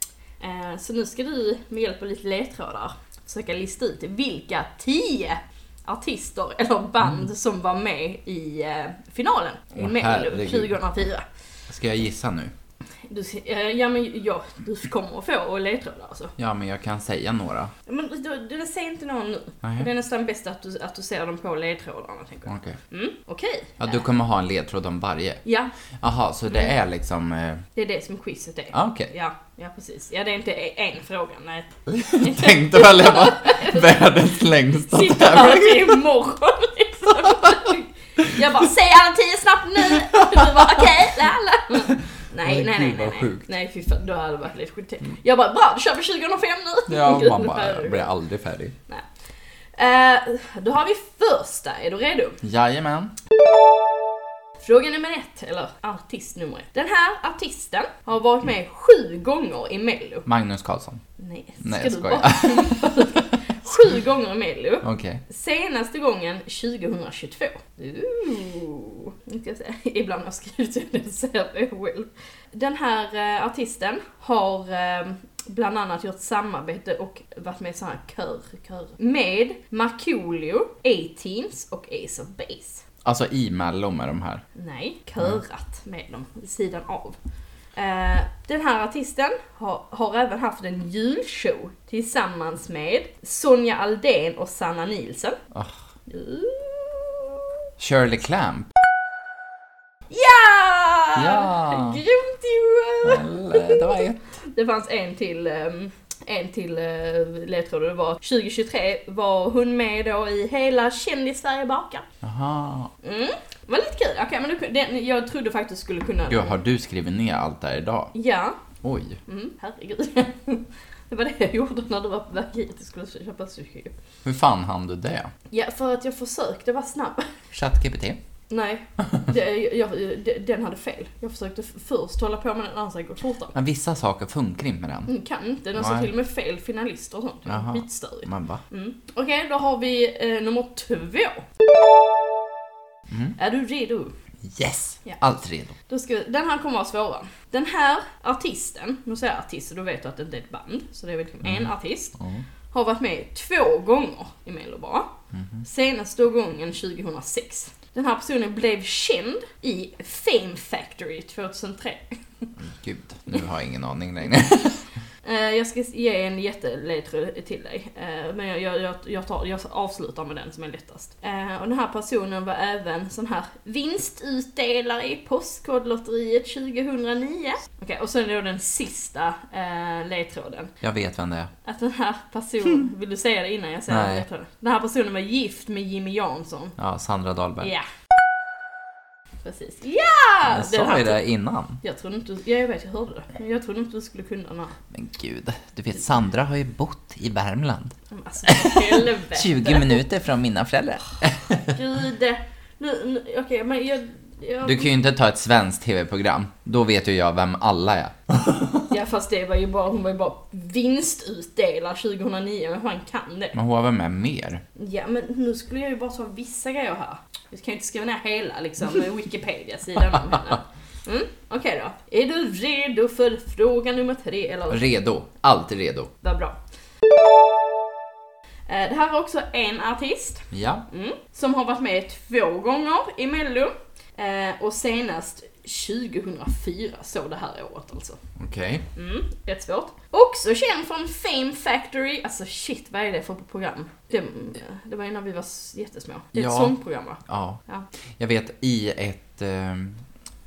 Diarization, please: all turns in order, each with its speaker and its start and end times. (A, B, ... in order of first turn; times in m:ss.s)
0:00.4-0:11.2 A
0:09.8-0:10.8 B
0:11.7-0:12.5 B
0:13.1-0:16.3 A
0:16.4-0:17.7 B
0:17.9-0:23.9 A
0:19.6-0:19.9 B
0:22.5-0:22.8 B
0:23.8-0:25.4 B
0:25.4-0:25.7 A
0:26.0-0:27.6 B
0:27.8-0:34.2 A
0:28.7-0:29.1 B
0:31.9-0:36.0 B
0:34.9-0:48.0 A
0:40.1-0:40.8 B
0:42.4-0:43.5 B
0:46.9-0:48.8 B
0:49.8-0:52.4 A
0:52.4-0:53.1 B
0:54.6-1:00.3 A
1:00.3-1:01.0 B
1:01.2-1:22.8 A
1:01.6-1:03.2 B
1:04.8-1:05.2 B
1:23.0-1:24.4 B
1:24.6-1:27.2 A
1:27.8-1:35.4 A
1:36.1-1:37.5 A
1:37.8-1:38.7 B
1:40.1-1:52.0 A
1:41.2-1:42.0 B
1:43.0-1:44.2 B
1:52.2-1:52.9 B
1:53.0-1:56.6 A
1:56.3-1:58.1 B
1:58.1-1:58.6 A
1:58.8-1:59.2 B
1:59.3-2:03.9 A
2:04.2-2:05.3 B
2:05.5-2:07.4 A
2:07.5-2:08.2 B
2:08.5-2:13.6 A
2:13.5-2:15.1 B
2:15.1-2:21.4 A
2:15.8-2:16.1 B
2:17.5-2:18.6 B
2:23.1-2:23.4 B
2:23.4-2:24.1 A
2:24.4-2:25.8 B
2:25.9-2:32.2 A
2:31.4-2:32.4 B
2:32.7-2:35.1 A
2:35.3-2:35.6 B
2:35.6-2:42.5 A
2:42.6-2:44.8 B
2:45.2-3:00.7 A
3:00.8-3:01.5 B
3:01.6-3:06.8 A
3:03.9-3:04.3 B
3:06.8-3:07.7 B
3:07.6-3:07.9 A
3:09.4-3:11.2 A
3:10.5-3:11.8 B
3:11.8-3:14.8 A
3:14.9-3:21.8 B
3:18.1-3:20.0 A
3:21.7-3:24.9 A
3:24.6-3:28.8 B
3:28.9-3:33.6 A
3:33.5-3:34.6 B
3:34.8-3:44.8 A
3:44.7-3:46.1 B
3:46.2-3:46.6 A
3:48.7-3:58.2 A
3:50.5-3:50.8 B
3:58.4-3:58.8 B
3:59.0-4:07.9 A
4:06.3-4:07.6 B
4:08.2-4:10.0 B